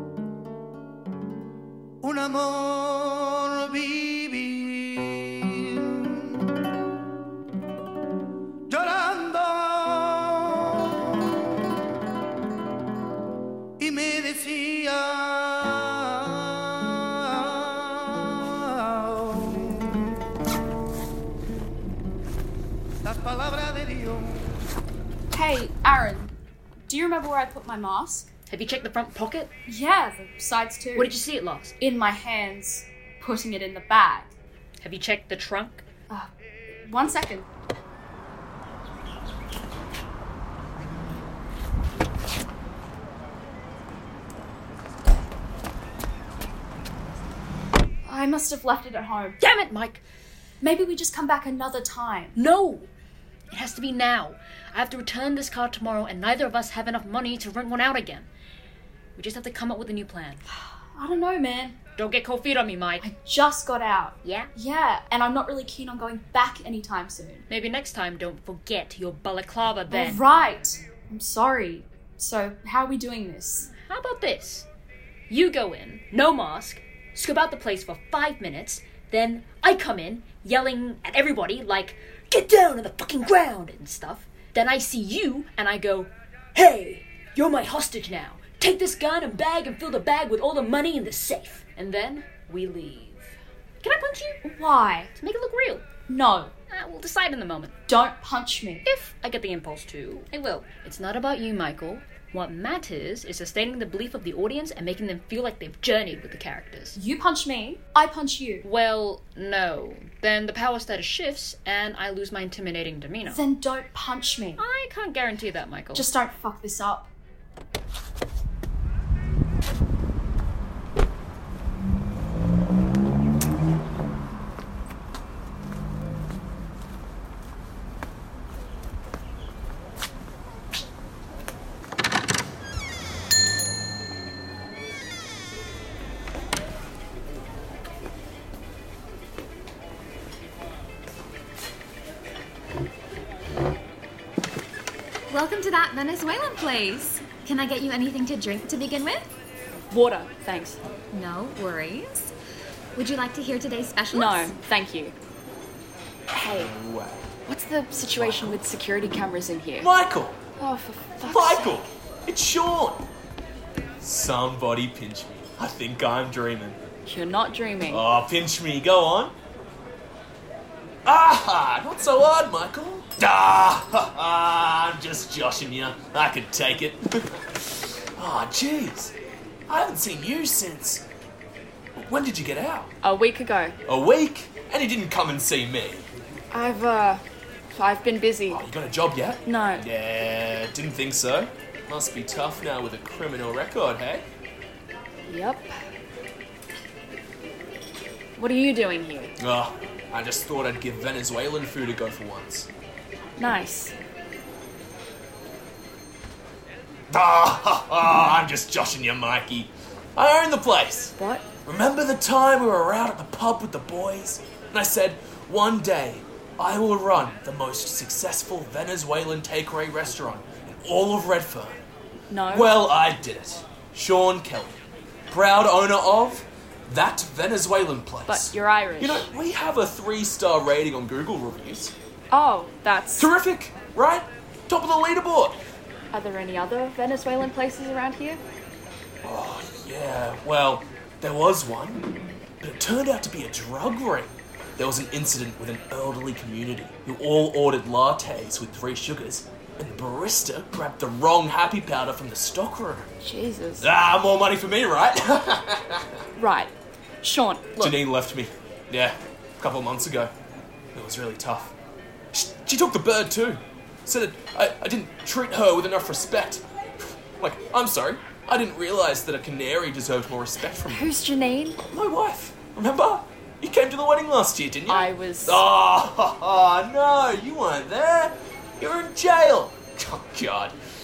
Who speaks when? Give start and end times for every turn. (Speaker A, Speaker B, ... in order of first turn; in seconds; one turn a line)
Speaker A: 2.0-5.9
Speaker A: 8.7-10.9
Speaker A: 13.8-19.6
Speaker A: 23.1-24.3
Speaker B: 25.3-28.3
Speaker C: 28.5-29.5
Speaker B: 29.6-31.2
Speaker C: 30.9-31.8
Speaker B: 31.8-34.3
Speaker C: 34.8-35.8
Speaker B: 36.1-37.5
Speaker B: 48.0-49.4
Speaker C: 49.4-50.0
Speaker B: 50.6-52.4
Speaker C: 52.4-52.9
Speaker C: 53.5-58.3
Speaker C: 59.1-60.4
Speaker B: 60.5-61.8
Speaker C: 62.0-63.1
Speaker B: 63.0-67.5
Speaker C: 64.2-64.5
Speaker C: 67.5-70.2
Speaker B: 69.9-73.7
Speaker C: 73.6-74.7
Speaker C: 75.3-94.4
Speaker B: 94.4-95.1
Speaker C: 95.2-95.8
Speaker B: 96.1-96.5
Speaker C: 96.7-97.7
Speaker B: 97.8-98.9
Speaker C: 98.8-107.0
Speaker B: 106.9-108.7
Speaker C: 108.6-113.4
Speaker B: 113.3-114.6
Speaker C: 114.6-116.1
Speaker B: 115.9-117.1
Speaker D: 145.3-149.3
Speaker E: 149.9-150.8
Speaker D: 151.1-152.3
Speaker D: 152.9-154.6
Speaker E: 154.1-155.1
Speaker E: 156.3-156.7
Speaker F: 156.5-157.2
Speaker E: 157.4-159.9
Speaker F: 158.2-158.7
Speaker F: 159.8-160.4
Speaker E: 160.6-161.9
Speaker F: 161.2-163.0
Speaker F: 164.0-166.8
Speaker E: 167.0-168.0
Speaker F: 167.9-169.3
Speaker F: 171.0-179.1
Speaker F: 179.7-181.1
Speaker F: 181.9-182.9
Speaker E: 183.0-183.8
Speaker F: 183.8-186.1
Speaker E: 186.5-188.6
Speaker F: 188.5-194.2
Speaker E: 189.4-189.8
Speaker E: 195.3-195.8
Speaker E: 198.3-199.3
Speaker F: 199.4-202.7
Speaker E: 203.4-203.9
Speaker F: 207.1-221.8
Speaker E: 211.2-211.4
Speaker E: 222.3-222.7
Speaker F: 222.5-224.8
Speaker F: 225.3-231.9
Speaker E: 228.2-229.3
Speaker E: 232.3-233.3
Speaker F: 233.2-235.6
Speaker E: 236.1-238.4
Speaker F: 239.2-242.0
Speaker F: 242.6-253.1
Speaker E: 253.2-253.9
Speaker F: 253.8-256.2
Speaker E: 256.4-258.0
Speaker F: 257.8-260.3
Speaker F: 260.9-261.7
Speaker F: 262.3-266.6
Speaker F: 267.4-271.1
Speaker E: 270.7-271.8
Speaker F: 271.9-280.8
Speaker E: 274.9-275.6